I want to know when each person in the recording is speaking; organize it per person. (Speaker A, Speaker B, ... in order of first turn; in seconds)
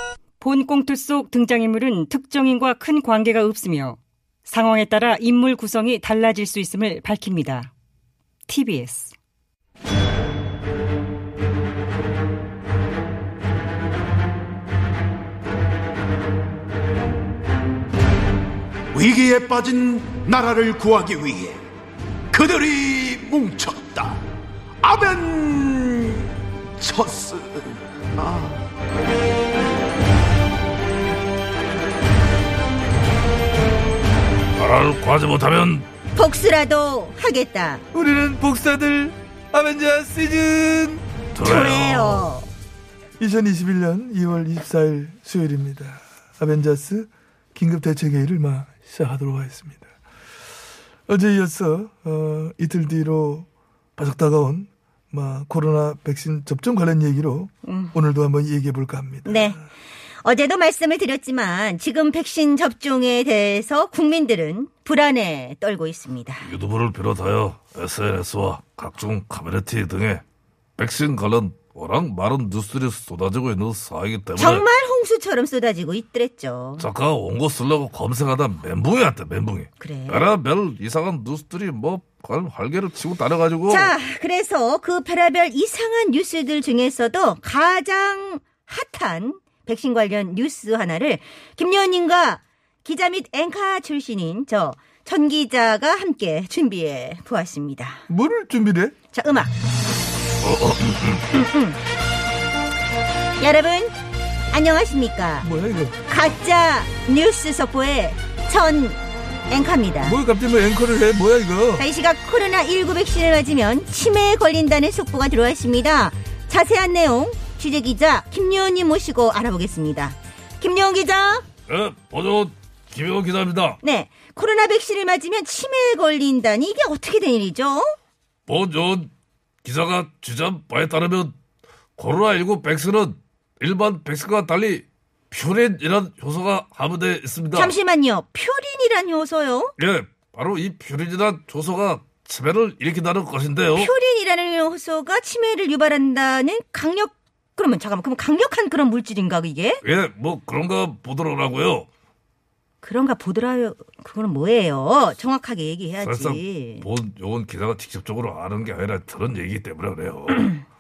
Speaker A: 0.4-7.7, 8.5-9.2
Speaker B: 19.0-21.6, 22.4-24.1, 24.9-26.2, 26.8-27.4
Speaker C: 34.6-35.9, 41.3-42.3, 66.4-70.2, 70.8-74.7, 76.8-83.9, 100.4-101.2, 121.7-123.8, 128.5-129.1, 129.6-131.3, 132.0-137.8, 139.8-143.9, 149.8-151.9, 156.0-160.6
Speaker D: 36.1-37.8, 41.4-42.5, 57.6-58.0, 59.2-59.6, 60.2-66.5, 74.3-76.9, 79.8-80.3, 83.7-98.0, 99.1-99.5, 101.3-101.8, 103.4-103.9, 104.5-105.5, 106.1-109.0, 109.5-110.2, 111.8-121.5, 123.8-127.9, 137.5-139.7, 143.8-149.8, 152.8-156.8
Speaker E: 37.9-41.0, 43.2-49.8, 51.1-53.5, 54.0-59.6, 98.1-98.9, 105.4-106.0, 110.0-111.8